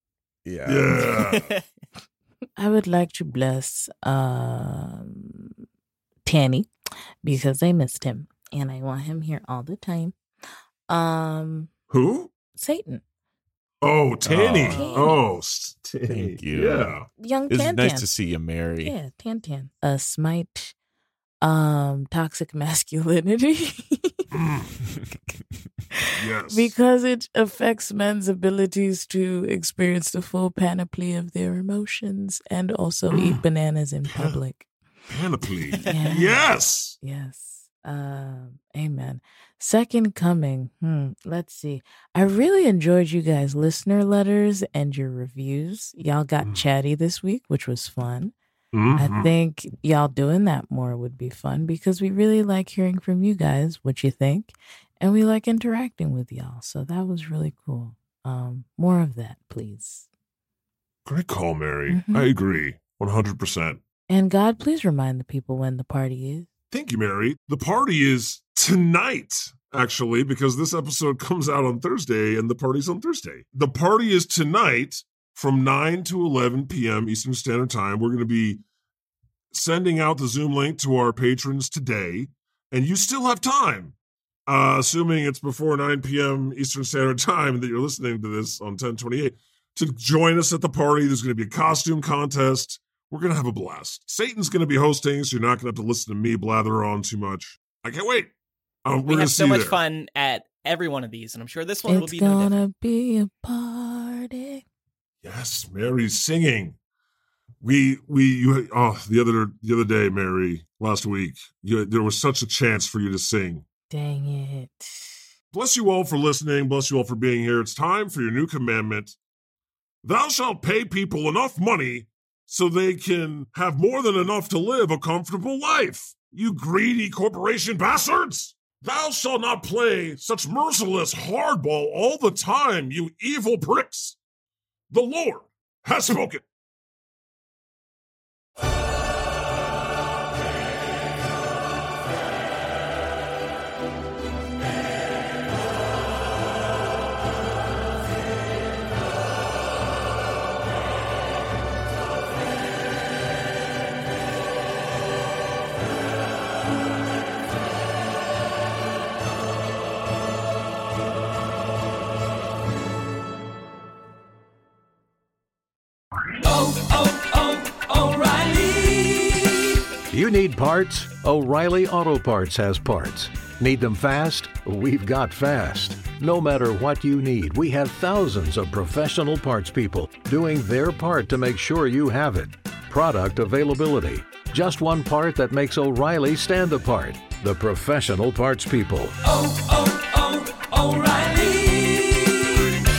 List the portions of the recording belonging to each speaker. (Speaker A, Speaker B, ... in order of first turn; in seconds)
Speaker A: 0.5-1.1, 14.2-14.8, 16.1-17.0, 17.5-18.9
Speaker B: 0.7-1.5, 11.9-12.3, 13.8-17.1, 24.3-24.7, 26.2-26.7, 33.1-33.4, 34.1-34.4, 35.1-37.0, 48.7-49.3, 61.1-63.8, 66.7-78.6, 79.5-84.0, 84.5-98.3, 98.8-99.8, 105.2-106.8, 107.6-113.7, 115.5-119.2, 120.0-134.2, 134.9-136.4
Speaker C: 1.3-1.6, 14.7-15.2, 99.1-102.5
Speaker D: 2.6-5.5, 6.2-6.7, 7.2-10.2, 10.9-11.7, 12.6-13.0, 14.7-15.2, 17.1-18.1, 18.8-20.8, 21.4-24.3, 25.9-34.7, 35.8-48.3, 49.0-60.1, 61.9-62.3, 64.1-66.5, 101.9-104.6, 113.9-115.1
Speaker E: 166.3-169.5, 170.1-192.5